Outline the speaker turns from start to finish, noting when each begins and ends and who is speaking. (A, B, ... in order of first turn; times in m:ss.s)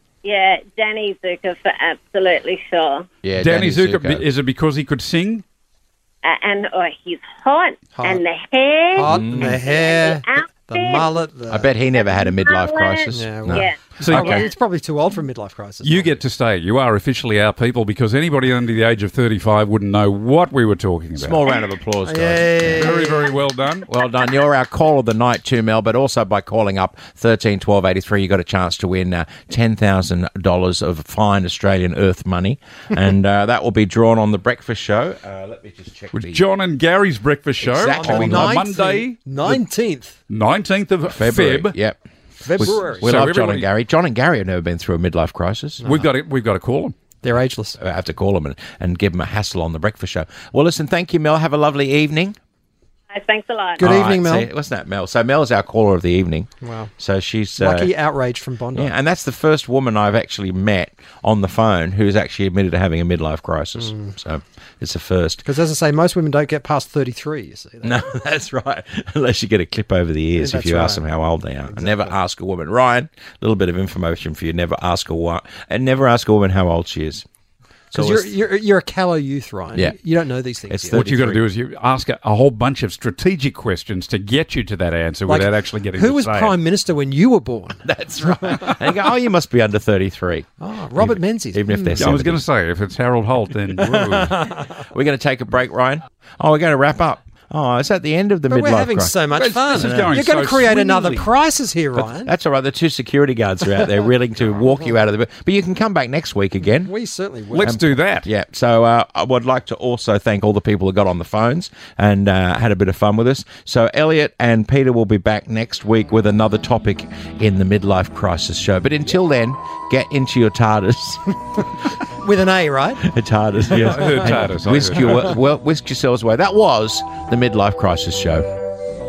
0:00.2-0:03.1 A
0:03.2-0:04.2 B
0:03.4-0:05.4 C
0:06.2-0:11.2 A
0:08.0-0:08.2 D
0:08.9-0:11.7 D
0:09.1-0:09.6 B
0:11.5-0:13.6 B
0:12.0-0:14.5 A
0:13.1-0:16.2 D
0:14.0-0:14.5 C
0:15.8-0:21.4 C
0:21.2-0:23.1 B
0:22.0-0:23.3 D
0:22.8-0:23.9 C
0:23.9-0:36.4 B
0:36.1-0:39.5 C
0:37.6-0:38.6 B
0:37.9-0:40.2 D
0:40.3-0:41.8 C
0:41.1-0:42.0 B
0:42.4-0:43.3 D
0:42.5-0:43.7 C
0:42.5-0:45.9 B
0:45.8-0:46.1 D
0:45.8-0:47.0 C
0:47.2-0:47.8 D
0:47.8-0:52.4 B
0:53.1-0:54.0 A
0:53.8-0:54.5 D
0:53.8-0:57.9 B
0:56.6-0:56.9 D
0:57.6-0:58.9 D
0:58.7-1:05.4 B
1:03.8-1:04.1 D
1:05.4-1:08.1 D
1:07.8-1:17.2 B
1:10.4-1:11.0 D
1:11.7-1:12.2 D
1:17.9-1:18.3 B
1:17.9-1:21.0 D
1:20.7-1:21.4 B
1:20.9-1:26.6 C
1:25.3-1:27.8 D
1:27.8-1:32.4 B
1:28.5-1:28.8 D
1:30.6-1:32.1 D
1:32.0-1:34.4 C
1:33.9-1:39.2 B
1:38.5-1:42.3 D
1:39.4-1:41.3 C
1:39.7-1:40.2 B
1:42.0-1:46.9 B
1:46.8-1:47.8 D
1:47.5-1:48.3 C
1:47.6-2:01.3 B
2:02.2-2:03.0 D
2:03.0-2:08.5 B
2:03.7-2:05.3 C